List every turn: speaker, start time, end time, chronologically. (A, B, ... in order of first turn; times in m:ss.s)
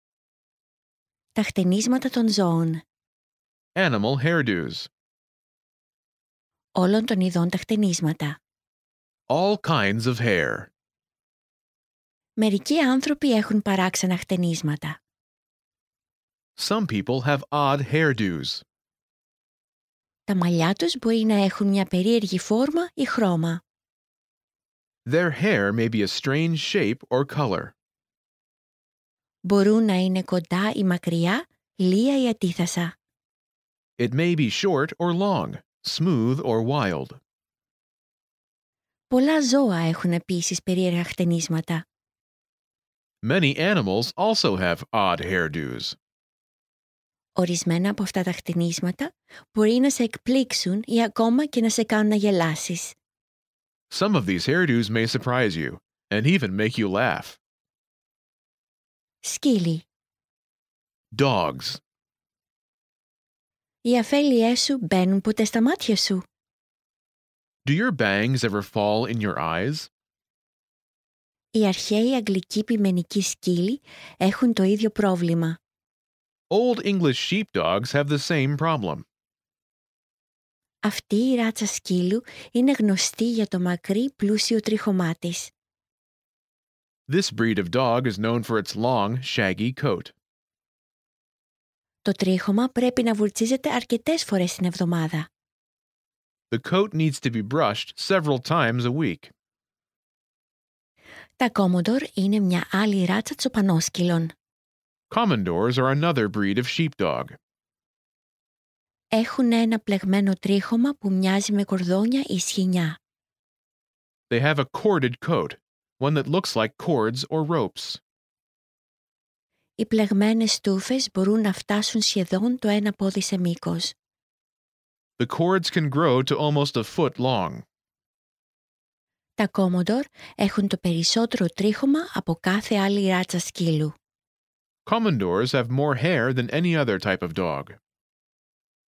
0:01.4-0:02.8 A
0:03.8-0:04.9 B
0:06.8-0:08.4 A
0:09.3-0:10.7 B
0:12.4-0:15.0 A
0:16.6-0:18.6 B
0:20.3-0:23.6 A
0:25.1-0:27.7 B
0:29.5-0:32.9 A
0:34.0-0:37.2 B
0:39.1-0:41.8 A
0:43.2-0:46.0 B
0:47.4-0:53.0 A
0:53.9-0:57.4 B
0:59.2-0:59.9 A
1:01.1-1:01.8 B
1:03.8-1:06.2 A
1:07.6-1:09.9 B
1:11.6-1:15.6 A
1:16.5-1:19.0 B
1:20.8-1:25.5 A
1:27.1-1:30.1 B
1:32.0-1:35.3 A
1:36.5-1:39.3 B
1:41.4-1:44.3 A
1:45.1-1:47.4 B
1:49.1-1:53.0 A
1:54.3-1:58.0 B
1:59.8-2:04.0 A
2:05.2-2:07.6 B
2:09.4-2:13.9 A
2:14.9-2:17.8 B